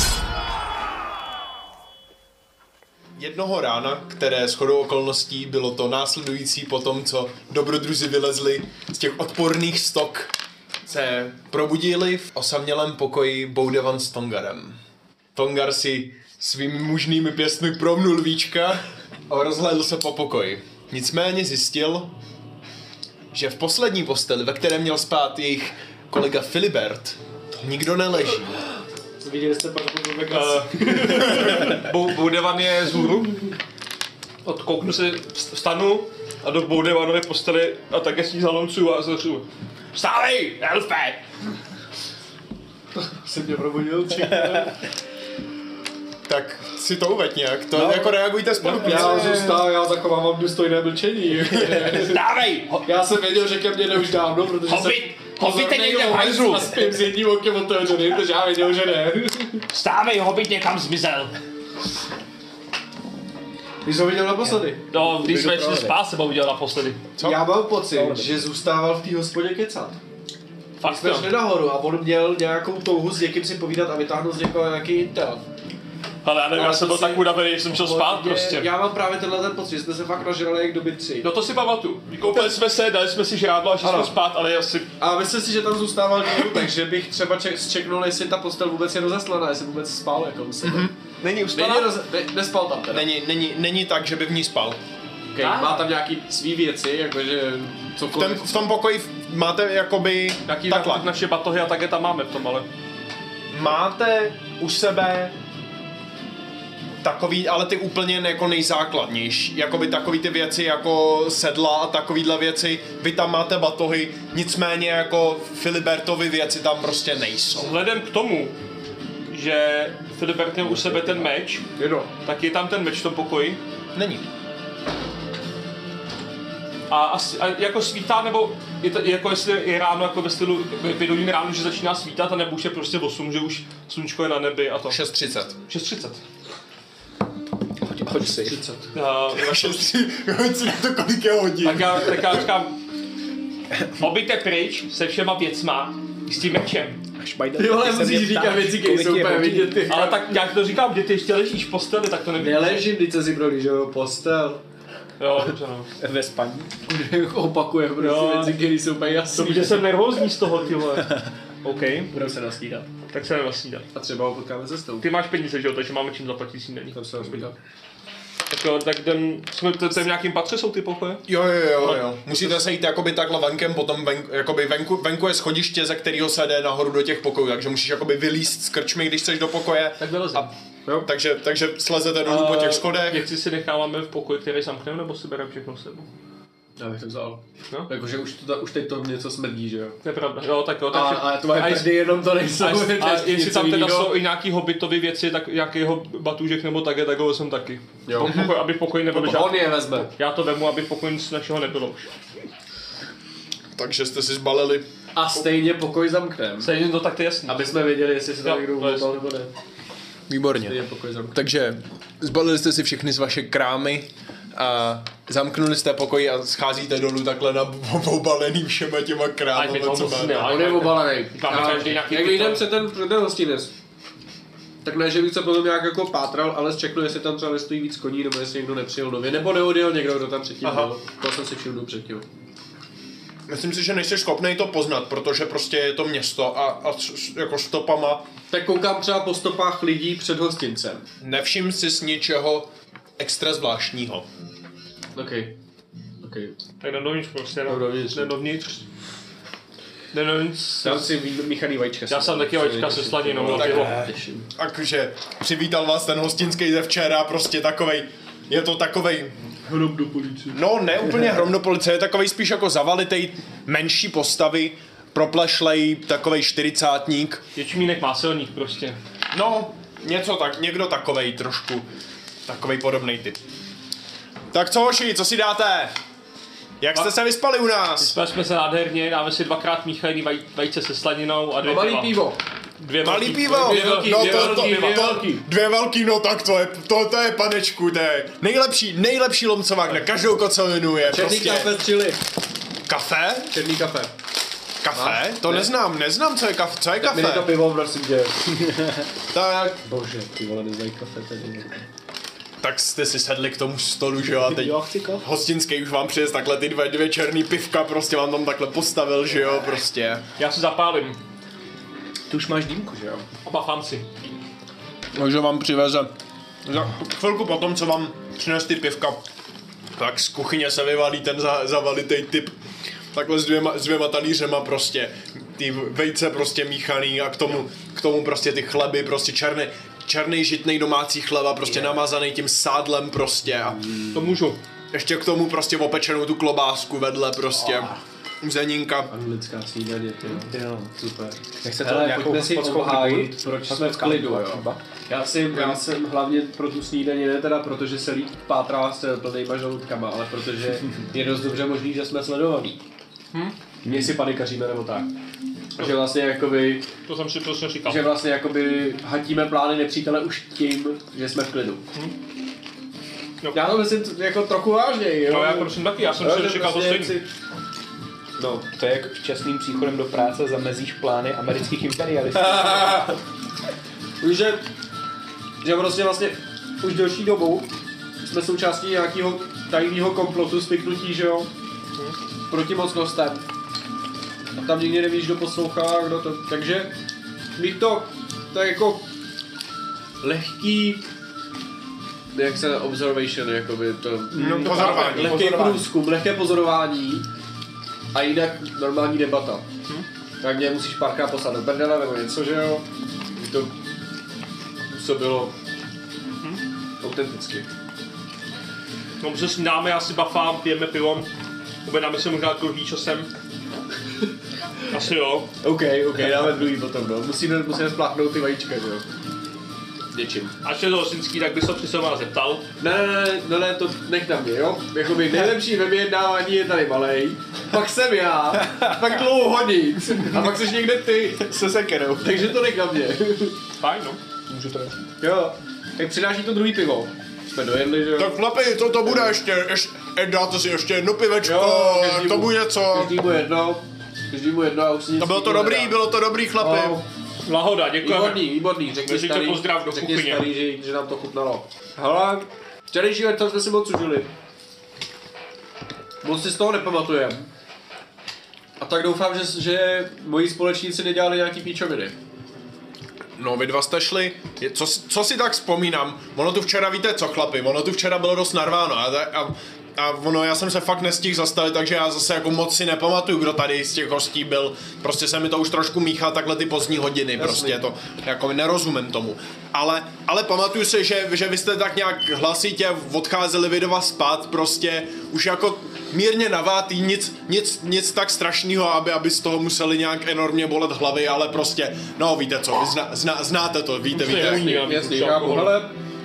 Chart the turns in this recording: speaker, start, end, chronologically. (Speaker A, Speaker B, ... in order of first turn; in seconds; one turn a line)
Speaker A: 3.1-14.8
Speaker A: 15.3-22.1
Speaker A: 23.3-28.6
Speaker B: 29.2-31.8
Speaker C: 30.3-33.6
Speaker C: 34.4-41.2
Speaker B: 42.9-44.8
Speaker A: 46.3-49.5
Speaker B: 47.7-52.2
Speaker D: 48.7-49.6
Speaker C: 51.5-52.8
Speaker B: 52.8-59.6
Speaker C: 54.7-56.8
Speaker C: 59.7-61.3
Speaker B: 63.8-64.8
Speaker C: 64.9-67.0
Speaker D: 64.9-66.0
Speaker B: 67.2-70.0
Speaker D: 67.9-68.4
Speaker C: 70.8-71.4
Speaker B: 70.8-75.4
Speaker C: 76.2-78.7
Speaker B: 76.5-81.3
Speaker C: 81.2-84.9
Speaker B: 82.2-82.5
Speaker B: 83.8-84.1
Speaker B: 85.0-90.9
Speaker A: 90.6-90.9
Speaker C: 91.2-91.9
Speaker B: 91.5-93.1
Speaker A: 92.9-94.8
Speaker B: 95.3-98.5
Speaker C: 95.4-95.9
Speaker A: 98.1-101.1
Speaker B: 100.5-101.0
Speaker C: 100.7-102.7
Speaker A: 103.5-105.3
Speaker A: 107.0-117.8
Speaker C: 117.5-118.5
Speaker C: 119.3-121.7
Speaker B: 121.8-122.1
Speaker C: 122.2-123.6
Speaker A: 123.9-124.2
Speaker C: 126.9-135.0
Speaker A: 134.9-135.6
Speaker C: 135.7-136.2
Speaker D: 137.9-138.6
Speaker B: 138.2-138.8
Speaker C: 138.9-139.9
Speaker A: 139.3-142.5
Speaker C: 141.6-142.8
Speaker D: 143.8-144.0
Speaker C: 143.9-147.0
Speaker D: 147.2-149.8
Speaker B: 147.6-150.4
Speaker C: 149.9-152.8
Speaker B: 152.4-154.6
Speaker C: 155.2-155.9
Speaker D: 156.0-156.7
Speaker B: 156.8-159.9
Speaker C: 158.0-158.6
Speaker C: 159.3-162.1
Speaker B: 162.1-162.9
Speaker C: 163.1-163.9
Speaker B: 163.9-165.1
Speaker C: 165.0-167.5
Speaker B: 166.9-167.5
Speaker C: 168.5-171.2
Speaker A: 171.3-180.5
Speaker C: 171.8-172.6
Speaker C: 180.0-180.4
Speaker A: 181.0-183.2
Speaker C: 182.2-186.1
Speaker B: 186.8-190.0
Speaker C: 190.0-191.8
Speaker B: 190.9-194.1
Speaker D: 191.2-191.8
Speaker C: 192.6-202.1
Speaker B: 198.1-198.3
Speaker A: 198.2-198.5
Speaker B: 199.1-200.1
Speaker A: 203.8-204.9
Speaker B: 205.1-206.7
Speaker C: 206.6-207.6
Speaker B: 207.4-209.5
Speaker C: 208.4-209.1
Speaker A: 210.3-210.8
Speaker B: 210.7-211.4
Speaker A: 211.3-220.5
Speaker C: 219.5-222.7
Speaker B: 220.4-223.7
Speaker B: 224.8-232.2
Speaker A: 230.6-230.9
Speaker A: 233.5-238.2
Speaker B: 238.5-241.1
Speaker A: 241.2-244.2
Speaker B: 245.1-245.5
Speaker B: 246.2-246.5
Speaker C: 246.8-248.8
Speaker B: 247.7-248.3
Speaker C: 250.1-251.1
Speaker B: 250.8-254.5
Speaker C: 252.1-254.0
Speaker A: 253.5-254.0
Speaker A: 254.6-259.3
Speaker B: 259.7-260.6
Speaker A: 260.5-267.4
Speaker C: 267.5-269.0
Speaker A: 269.3-271.9
Speaker A: 272.4-273.4
Speaker A: 274.5-276.0
Speaker A: 276.8-278.1
Speaker C: 278.0-282.2
Speaker B: 281.6-282.4
Speaker C: 282.8-285.0
Speaker A: 283.0-291.7
Speaker B: 283.5-285.4
Speaker B: 291.0-292.2
Speaker A: 292.9-293.5
Speaker B: 293.5-294.1
Speaker A: 294.8-297.5
Speaker B: 294.9-295.7
Speaker B: 297.0-298.7
Speaker A: 299.3-299.8
Speaker B: 299.8-301.8
Speaker A: 302.6-310.2
Speaker D: 304.4-305.2
Speaker C: 310.4-311.2
Speaker D: 312.3-313.2
Speaker C: 313.4-314.1
Speaker A: 315.1-316.1
Speaker A: 316.6-319.2
Speaker A: 320.0-322.5
Speaker A: 323.1-334.1
Speaker C: 334.1-334.6
Speaker A: 334.9-339.1
Speaker D: 337.6-338.0
Speaker B: 339.1-352.8
Speaker D: 340.3-341.0
Speaker D: 341.6-344.8
Speaker A: 345.5-345.8
Speaker B: 353.8-355.1
Speaker B: 355.8-356.9
Speaker C: 355.8-356.1
Speaker C: 357.1-358.0
Speaker B: 357.8-361.8
Speaker C: 363.4-363.7
Speaker B: 363.5-367.3
Speaker C: 365.3-367.2
Speaker B: 368.4-368.7
Speaker D: 368.7-373.1
Speaker B: 372.3-373.2
Speaker B: 374.2-374.7
Speaker B: 375.6-377.7
Speaker B: 378.2-381.5
Speaker B: 382.5-383.4
Speaker B: 384.6-386.9
Speaker B: 387.6-389.1
Speaker B: 390.2-391.0
Speaker B: 392.3-397.3
Speaker D: 394.3-395.8
Speaker A: 394.4-395.4
Speaker C: 394.4-395.6
Speaker B: 398.1-399.6
Speaker B: 400.4-402.8
Speaker B: 403.3-403.7
Speaker B: 404.9-405.5
Speaker B: 407.0-407.7
Speaker C: 409.2-411.3
Speaker C: 411.8-413.3
Speaker C: 414.9-415.5
Speaker B: 415.6-419.1
Speaker B: 420.1-420.6
Speaker C: 420.6-422.7
Speaker B: 422.8-431.6
Speaker D: 431.5-432.5
Speaker B: 432.2-433.6
Speaker C: 433.8-434.2
Speaker B: 434.5-438.4
Speaker A: 438.1-443.1
Speaker B: 441.4-446.0
Speaker A: 445.2-447.0
Speaker B: 446.6-447.0
Speaker C: 447.4-448.5
Speaker B: 448.0-454.3
Speaker C: 449.0-450.4
Speaker B: 456.2-457.5
Speaker B: 458.8-462.1
Speaker A: 463.4-494.6
Speaker B: 477.4-477.8
Speaker C: 494.1-495.8
Speaker B: 494.4-495.9